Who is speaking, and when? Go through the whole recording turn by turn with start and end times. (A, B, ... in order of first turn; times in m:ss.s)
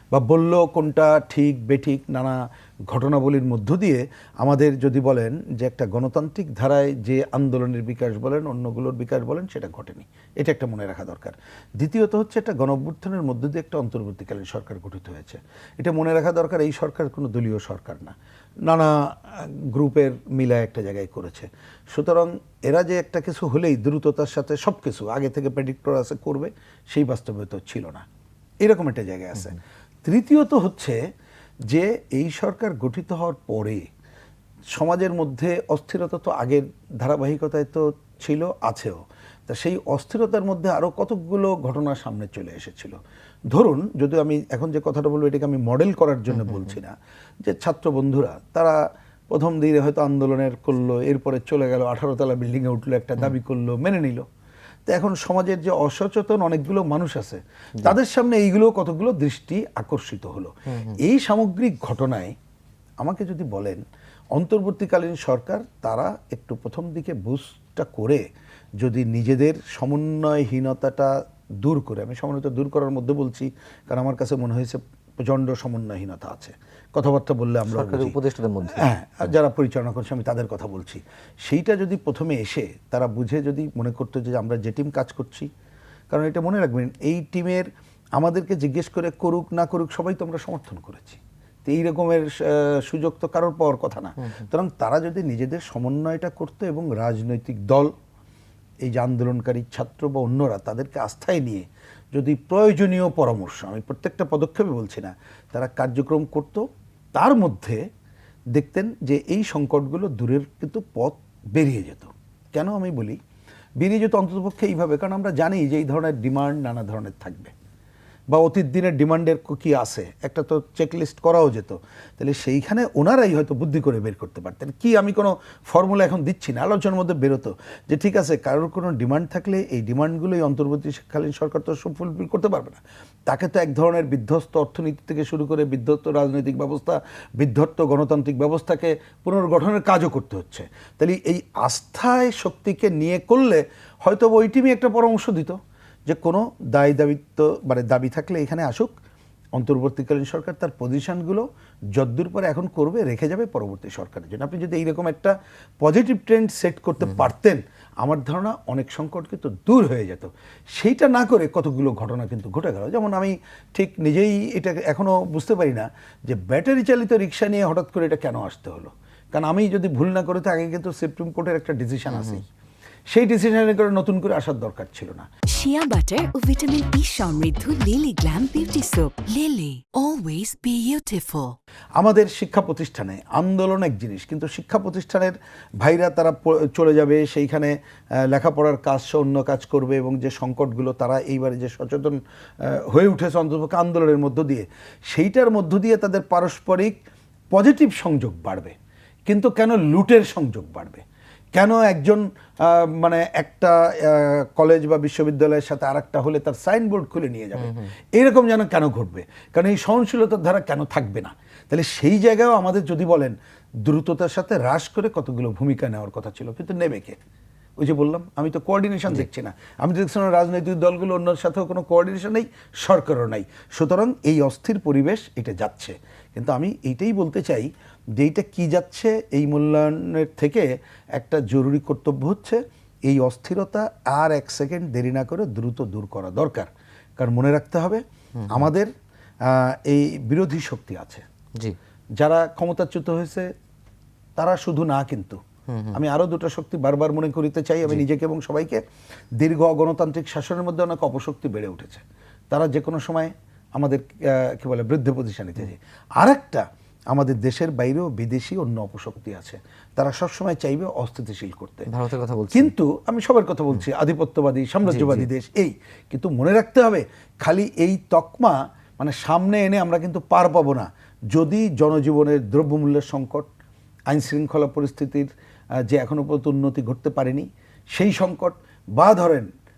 0:00.1-0:02.4 A
0:02.9-0:18.1 A
0:18.7-0:28.0 A
0:28.6-0:31.0 A
0:31.7-0:33.9 A
0:34.7-0:43.0 A
0:43.5-0:48.8 A
0:46.3-0:46.7 B
0:49.3-0:54.2 A
0:54.9-1:02.3 A
1:00.7-1:01.0 B
1:03.0-1:03.8 A
1:04.3-1:08.2 A
1:08.8-1:25.5 A
1:17.7-1:18.9 B
1:26.1-1:37.9 A
1:38.8-1:47.8 A
1:48.5-1:53.2 A
1:53.8-1:57.5 A
1:58.3-2:28.9 A
2:29.6-2:31.4 A
2:32.0-2:52.4 A
2:52.1-2:52.4 B
2:53.1-2:55.3 A
2:55.5-3:01.6 C
3:02.0-3:07.7 A
3:08.2-3:16.9 A
3:17.5-3:18.7 A
3:19.3-3:21.0 A
3:21.5-3:37.2 A
3:27.6-3:27.9 B
3:37.8-3:58.9 A
3:58.4-3:58.7 B
3:59.5-4:01.2 A
4:02.2-4:03.5 A
4:04.4-4:05.4 A
4:05.7-4:06.0 B
4:05.9-4:08.8 A
4:09.4-4:21.9 A
4:21.9-4:22.7 B
4:22.5-4:33.5 A
4:24.8-4:25.3 B
4:34.1-4:35.3 A
4:35.9-4:39.5 A